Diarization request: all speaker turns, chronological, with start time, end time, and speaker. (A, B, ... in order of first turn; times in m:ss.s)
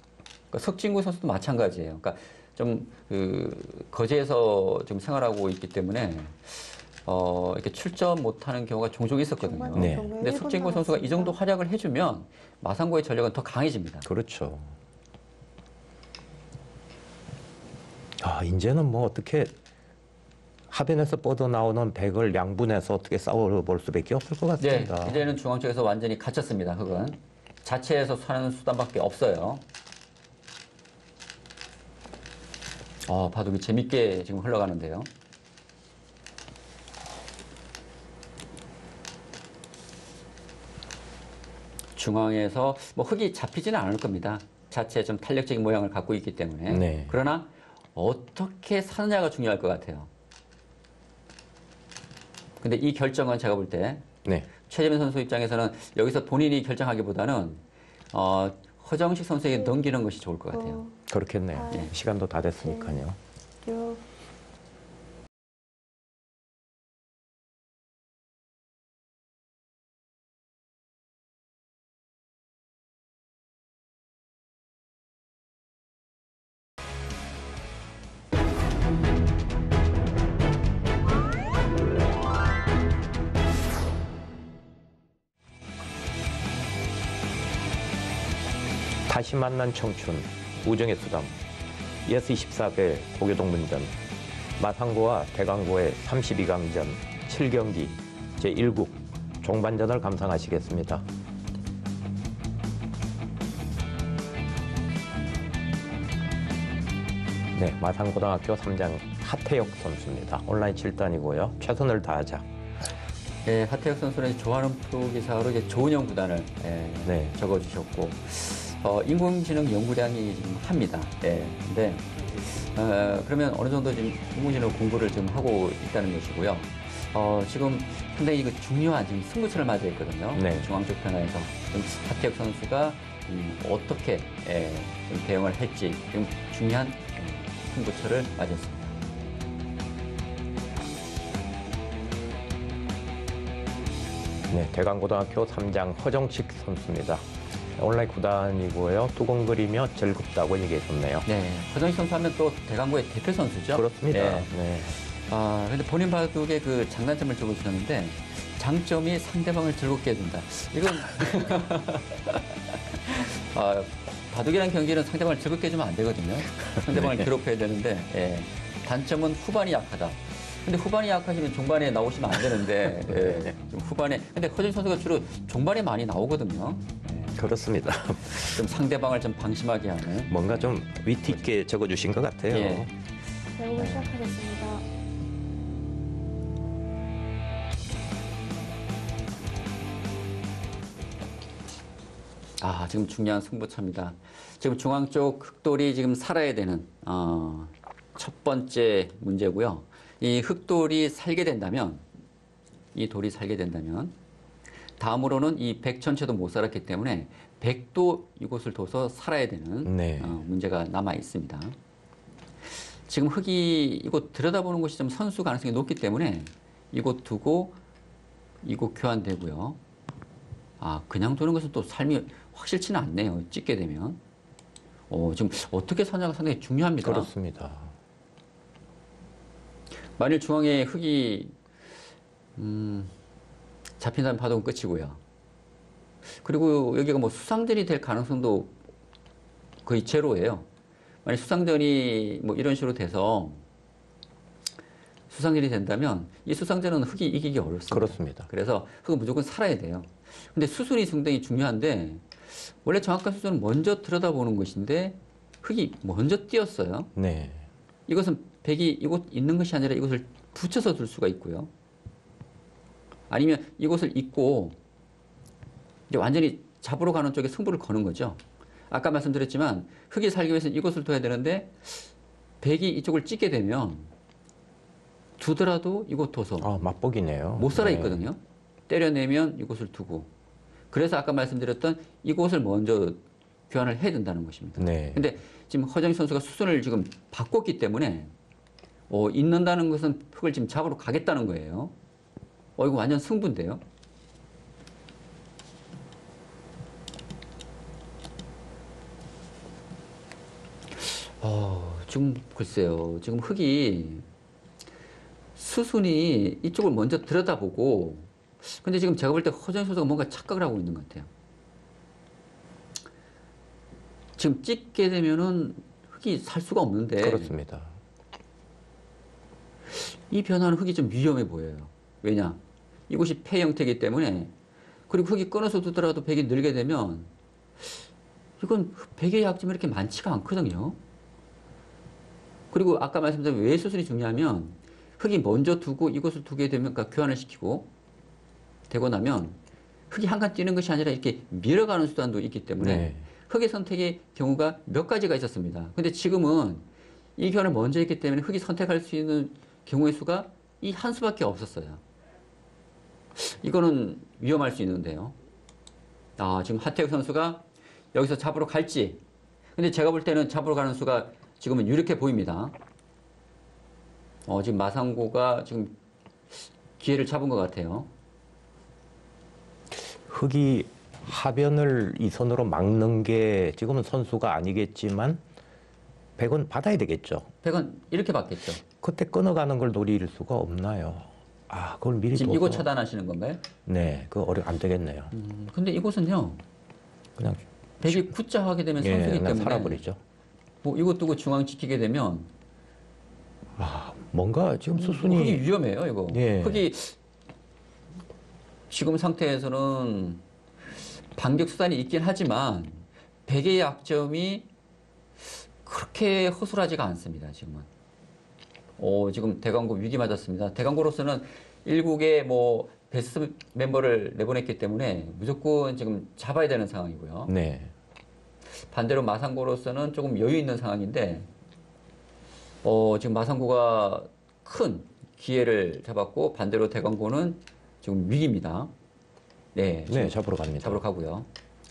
0:00.5-0:14.1 A
0:09.4-0:11.4 B
0:09.7-0:10.1 C
0:14.0-0:14.7 C
0:18.2-0:19.5 C
0:20.7-0:25.2 C
0:24.6-0:29.6 A
0:33.0-0:35.1 A
0:42.0-0:50.1 A
0:46.7-0:47.1 C
0:52.6-0:57.6 A
0:58.1-1:00.8 A
1:00.5-1:01.0 B
1:01.1-1:03.2 C
1:01.5-1:01.9 B
1:02.6-1:03.0 B
1:03.6-1:04.0 B
1:29.1-1:31.4 C
1:32.0-1:34.0 C
1:34.6-1:41.0 C
1:47.5-1:52.5 C
1:53.4-2:18.9 A
1:57.0-1:57.4 C
2:10.3-2:10.7 C
2:24.5-2:31.2 C
2:31.3-2:57.4 A
2:33.7-2:35.0 C
2:46.8-2:47.3 C
2:53.0-2:53.5 C
2:57.3-2:58.6 C
2:58.3-3:00.8 A
3:00.2-3:02.9 C
3:02.5-3:02.9 A
3:03.6-3:04.9 B
3:03.8-3:04.1 A
3:12.6-3:22.0 A
3:22.9-3:24.1 A
3:25.0-3:31.8 A
3:29.8-3:30.4 C
3:33.1-3:37.8 A
3:38.6-3:39.8 A
3:40.8-3:44.2 A
3:45.1-3:47.3 A
3:47.0-3:47.9 C
3:50.2-3:51.5 A
3:52.6-3:53.1 A
3:54.0-3:55.2 A
3:56.4-3:58.7 A
3:59.8-4:00.7 A
4:01.2-4:03.6 A
4:05.3-4:17.1 A
4:07.9-4:08.5 C
4:17.2-4:17.6 C
4:18.1-4:21.7 A
4:23.3-4:24.8 A
4:26.1-4:34.1 A
4:35.4-4:36.7 A
4:36.6-4:38.2 C
4:37.6-4:40.3 A
4:40.9-4:48.3 A
4:44.8-4:45.3 C
4:49.1-4:51.9 A
4:52.8-4:53.8 A
5:01.0-5:04.2 A
5:05.6-5:11.3 A
5:14.4-5:17.5 A
5:17.2-5:17.9 C
5:19.9-5:24.5 A
5:25.1-5:27.3 A
5:28.6-5:31.0 A
5:32.7-5:37.9 A
5:38.9-5:39.6 A
5:40.1-5:46.8 A
5:42.8-5:43.2 C
5:47.4-5:52.0 A
5:53.4-5:55.4 A
5:56.4-5:59.2 A
5:59.8-6:02.8 A
6:04.5-6:06.0 A
6:06.5-6:08.1 A
6:10.2-6:15.4 C
6:16.4-6:17.5 C
6:17.6-6:18.8 A
6:19.0-6:22.9 C
6:22.3-6:23.6 A
6:23.8-6:25.3 C
6:25.3-6:26.6 A
6:27.4-6:28.3 C
6:28.0-6:30.0 A
6:29.0-6:30.2 C
6:30.8-6:32.5 A
6:33.8-6:35.6 C
6:35.0-6:37.2 A
6:36.3-6:36.8 C
6:38.9-6:40.4 A
6:41.3-6:44.7 A
6:45.8-6:47.9 A
6:49.0-6:57.5 A
6:57.5-6:57.9 C
6:58.8-7:01.5 A
7:02.8-7:08.9 A
7:09.7-7:11.5 A
7:10.1-7:11.0 C